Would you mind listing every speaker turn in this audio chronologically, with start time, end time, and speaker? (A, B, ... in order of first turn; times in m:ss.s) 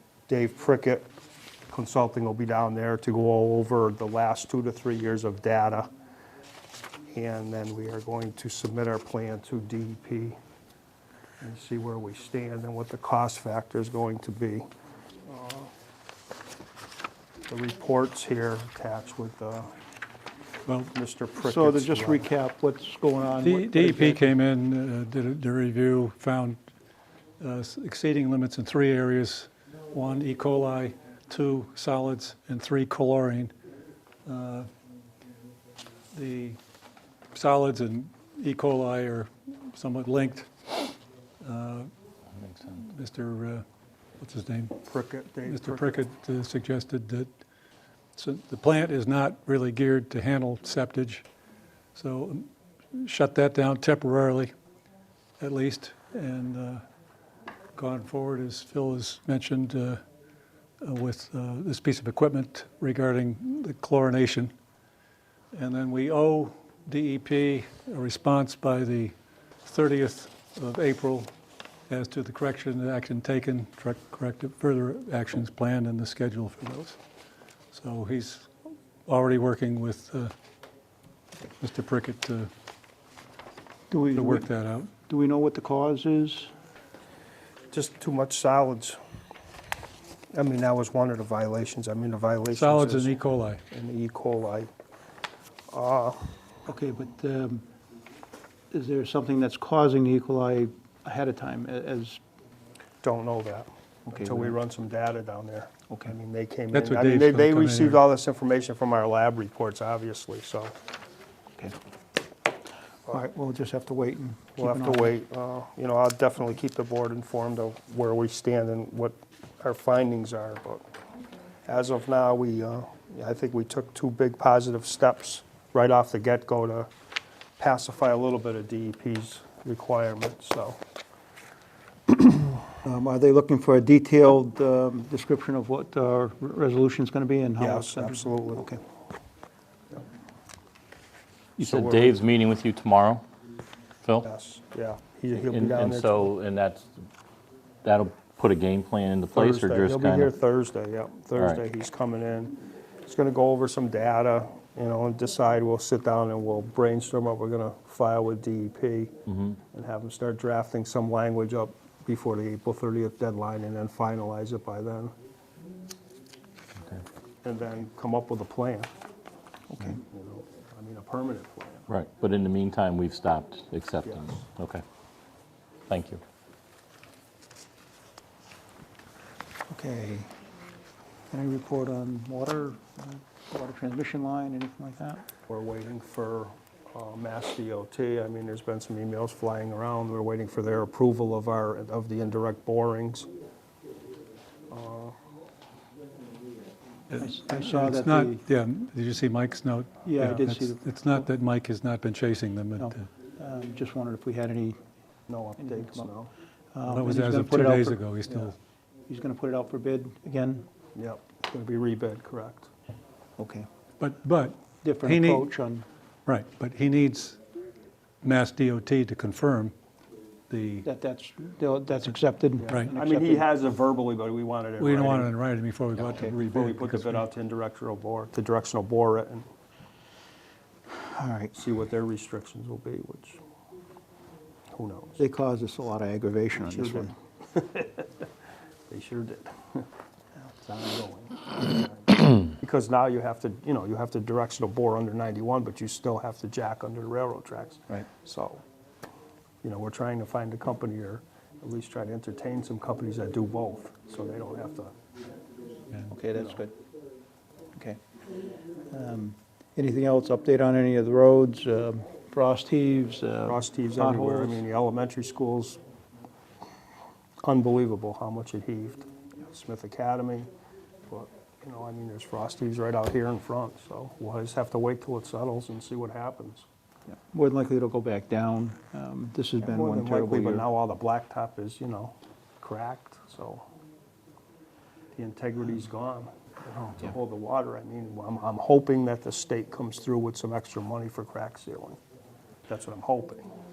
0:00.3-0:01.1 A
0:01.7-0:05.9 A
0:07.1-0:10.4 A
0:11.4-0:14.7 A
0:15.3-0:15.7 A
0:17.5-0:19.7 A
0:20.7-0:20.9 B
0:20.9-0:22.3 A
0:21.4-0:24.2 C
0:23.4-0:26.6 B
0:27.4-0:33.5 B
0:34.3-0:34.7 B
0:36.1-0:36.6 B
0:37.3-0:40.5 B
0:41.4-0:41.9 B
0:42.6-0:43.6 B
0:44.2-0:44.8 B
0:44.9-0:46.0 A
0:45.5-0:47.3 B
0:48.2-0:51.2 B
0:52.0-0:54.5 B
0:55.4-0:56.8 B
0:57.8-1:00.0 B
1:00.8-1:04.5 B
1:05.5-1:11.3 B
1:11.9-1:17.0 B
1:17.7-1:18.5 B
1:19.1-1:20.3 B
1:21.6-1:22.5 B
1:23.9-1:26.5 C
1:24.2-1:24.9 B
1:27.7-1:29.0 A
1:30.3-1:34.7 A
1:32.5-1:33.6 B
1:35.7-1:36.3 A
1:36.7-1:37.6 C
1:38.7-1:42.2 C
1:43.0-1:50.8 A
1:44.1-1:44.6 C
1:46.7-1:48.0 B
1:53.1-1:55.1 C
1:54.6-2:00.8 A
2:01.7-2:06.9 A
2:07.6-2:10.8 A
2:12.7-2:18.8 C
2:17.6-2:18.7 A
2:21.6-2:22.2 A
2:21.6-2:23.2 D
2:24.2-2:26.3 A
2:25.5-2:27.0 D
2:27.8-2:30.3 D
2:29.3-2:45.1 A
2:31.4-2:31.6 D
2:39.3-2:39.6 D
2:47.4-2:48.9 A
2:49.7-2:50.0 C
2:49.8-2:51.9 A
2:51.9-2:54.8 D
2:54.0-2:54.4 A
2:55.9-2:56.2 D
2:59.7-3:00.4 C
3:01.3-3:05.2 C
3:05.5-3:13.3 A
3:14.7-3:15.2 A
3:17.1-3:23.1 B
3:17.2-3:18.4 C
3:20.0-3:20.9 C
3:22.8-3:24.8 C
3:25.3-3:26.3 A
3:25.6-3:26.1 C
3:26.7-3:28.5 C
3:26.9-3:28.6 B
3:29.1-3:30.7 C
3:31.0-3:32.7 A
3:33.4-3:33.7 C
3:34.0-3:35.5 B
3:34.8-3:35.9 C
3:36.3-3:37.4 B
3:38.2-3:39.7 B
3:40.5-3:40.9 B
3:40.8-3:43.5 C
3:42.6-3:45.3 A
3:44.8-3:47.2 B
3:46.1-3:46.3 C
3:46.4-3:49.5 A
3:50.9-3:51.6 C
3:51.5-3:53.4 A
3:54.7-3:55.2 A
3:55.2-3:57.1 C
3:56.6-3:58.3 A
3:58.9-3:59.9 A
4:00.6-4:08.6 A
4:09.6-4:14.9 A
4:16.1-4:16.8 C
4:16.4-4:16.6 A
4:18.9-4:24.6 C
4:23.5-4:25.8 A
4:27.4-4:30.5 A
4:31.1-4:36.7 A
4:37.1-4:40.7 C
4:39.6-4:43.7 A
4:45.2-4:52.0 A
4:52.7-4:53.5 A